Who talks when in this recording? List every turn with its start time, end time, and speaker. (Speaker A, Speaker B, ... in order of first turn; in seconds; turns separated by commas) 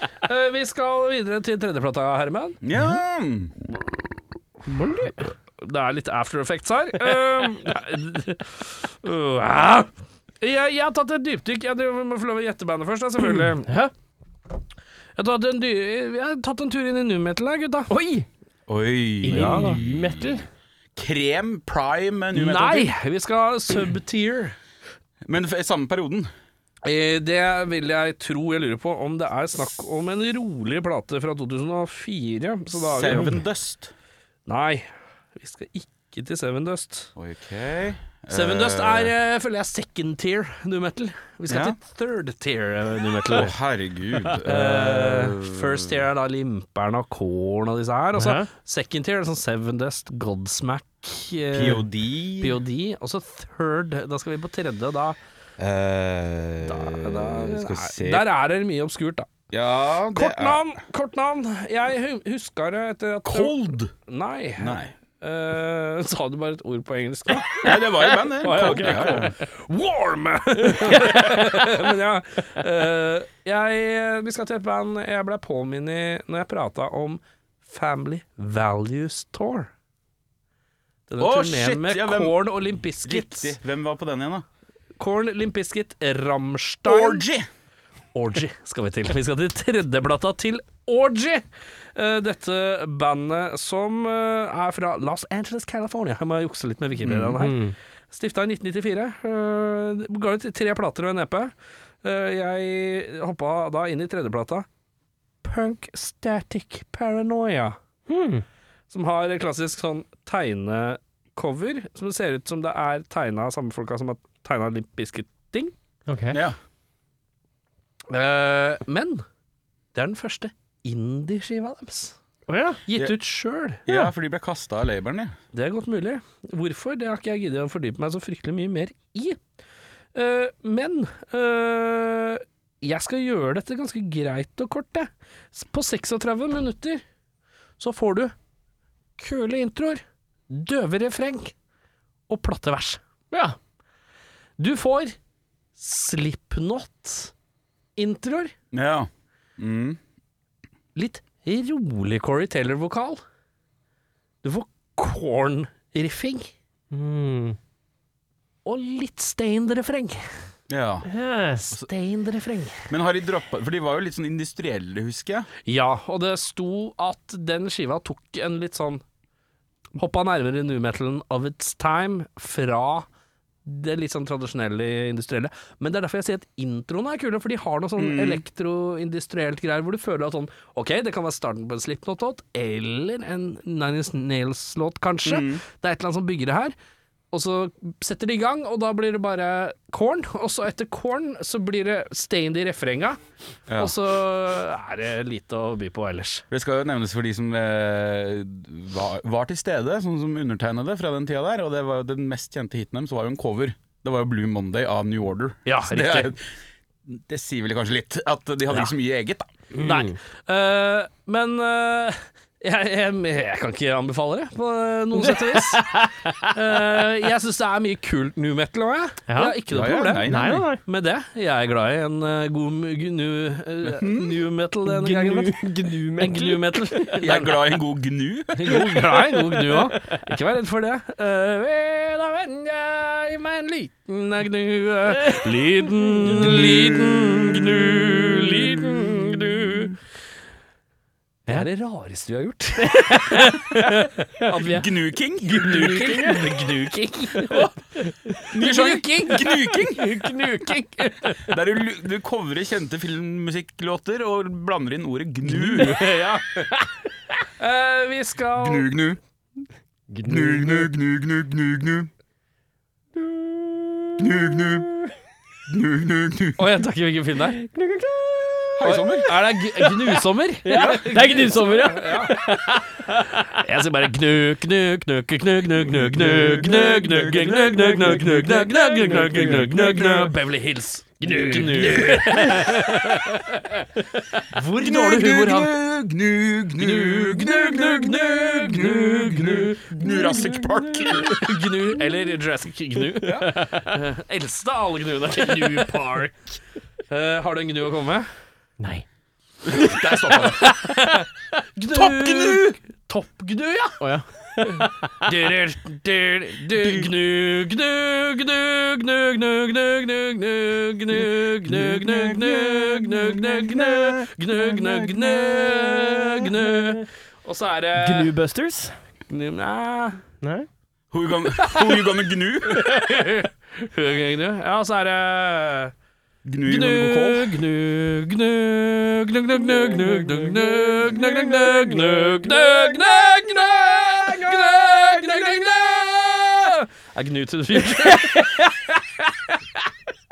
Speaker A: 0.2-2.6, Speaker B: 2.6-3.5, Speaker C: 4.7-5.2, Speaker A: 5.6-9.9, Speaker A: 10.4-13.7, Speaker C: 13.3-13.9, Speaker A: 15.2-17.9, Speaker C: 17.9-18.3, Speaker B: 18.7-20.4, Speaker C: 19.2-20.4, Speaker A: 19.3-19.8, Speaker B: 20.9-22.9, Speaker A: 22.3-24.6, Speaker B: 25.2-26.3, Speaker A: 26.8-33.4, Speaker B: 32.7-33.9, Speaker A: 34.5-37.1, Speaker B: 37.1-39.1, Speaker A: 38.3-43.5, Speaker B: 41.5-41.8, Speaker B: 43.3-46.0, Speaker A: 44.3-51.8, Speaker C: 48.1-48.5, Speaker B: 51.5-52.6, Speaker A: 52.4-55.2, Speaker B: 55.6-58.2, Speaker A: 56.6-59.3, Speaker B: 59.5-60.6, Speaker A: 60.1-79.7, Speaker B: 63.2-63.9, Speaker B: 64.6-64.9, Speaker B: 67.5-69.3, Speaker C: 70.8-71.6, Speaker A: 81.1-83.5, Speaker B: 81.2-82.4, Speaker B: 83.0-84.4, Speaker A: 85.0-87.2, Speaker B: 86.8-87.5, Speaker A: 88.1-104.7, Speaker B: 97.0-97.4, Speaker C: 97.4-97.7, Speaker A: 105.4-107.8, Speaker C: 108.1-108.4, Speaker A: 108.9-115.7, Speaker C: 116.1-116.4, Speaker B: 116.3-116.6, Speaker A: 118.1-119.2, Speaker A: 119.9-122.2, Speaker C: 122.5-122.8, Speaker A: 122.9-123.8, Speaker B: 123.8-125.3, Speaker A: 125.5-129.4, Speaker A: 130.1-137.0, Speaker A: 137.8-138.3, Speaker A: 139.2-141.5, Speaker A: 142.3-143.0, Speaker A: 144.6-145.2, Speaker A: 145.8-147.3, Speaker A: 147.9-148.5, Speaker B: 148.7-150.0, Speaker A: 150.9-153.2, Speaker A: 154.4-156.5, Speaker C: 156.9-157.6, Speaker A: 158.6-160.2, Speaker B: 160.7-161.1, Speaker C: 161.1-161.7, Speaker A: 161.8-162.9, Speaker B: 162.9-165.5, Speaker A: 165.6-169.0, Speaker A: 169.9-173.1, Speaker A: 173.6-186.7, Speaker B: 178.0-178.4, Speaker B: 185.2-185.6, Speaker A: 187.3-193.2, Speaker B: 193.7-193.9, Speaker A: 193.8-196.4, Speaker B: 196.5-206.4, Speaker A: 205.7-206.3, Speaker B: 207.1-209.5, Speaker C: 209.7-210.2, Speaker A: 209.8-215.9, Speaker C: 215.2-216.5, Speaker A: 216.4-220.3, Speaker C: 219.3-219.6, Speaker B: 219.7-220.7, Speaker C: 220.2-220.8, Speaker A: 220.8-225.7, Speaker B: 223.8-224.4, Speaker C: 224.8-227.2, Speaker A: 226.2-227.6, Speaker B: 227.2-229.2, Speaker A: 228.6-239.9, Speaker C: 229.5-230.2, Speaker C: 235.2-236.6, Speaker B: 236.4-238.2, Speaker C: 238.9-239.3, Speaker A: 241.5-247.7, Speaker C: 242.8-244.5, Speaker B: 244.6-246.1, Speaker C: 245.7-246.4, Speaker A: 248.4-251.5, Speaker B: 248.5-250.1, Speaker C: 250.3-250.7, Speaker B: 251.4-256.0, Speaker A: 255.5-256.9, Speaker A: 257.6-258.9, Speaker B: 258.6-259.2, Speaker C: 260.1-260.9, Speaker B: 260.2-262.1, Speaker C: 263.1-265.1, Speaker B: 264.2-264.9, Speaker B: 265.7-266.7, Speaker A: 266.6-267.6, Speaker C: 267.5-273.3, Speaker B: 268.8-269.3, Speaker A: 268.8-272.4, Speaker B: 270.7-271.2, Speaker A: 273.4-285.7, Speaker B: 275.9-278.7, Speaker C: 278.0-279.7, Speaker B: 279.2-280.3, Speaker C: 281.2-283.3, Speaker B: 284.8-291.4, Speaker A: 286.8-290.4, Speaker C: 290.1-291.3, Speaker A: 291.2-296.6, Speaker B: 293.2-293.5, Speaker A: 297.1-298.3, Speaker C: 298.8-299.0, Speaker B: 299.6-300.7, Speaker A: 300.3-304.0, Speaker B: 301.9-302.8, Speaker C: 304.0-305.3, Speaker A: 304.6-318.3, Speaker B: 306.7-307.1, Speaker B: 311.6-315.8, Speaker C: 316.0-317.0, Speaker C: 317.9-318.9, Speaker A: 319.3-320.2, Speaker C: 320.4-320.7, Speaker B: 321.1-322.9, Speaker A: 321.6-322.1, Speaker A: 322.6-325.9, Speaker C: 322.8-323.0, Speaker B: 326.4-327.6, Speaker A: 326.6-339.2, Speaker C: 330.0-332.5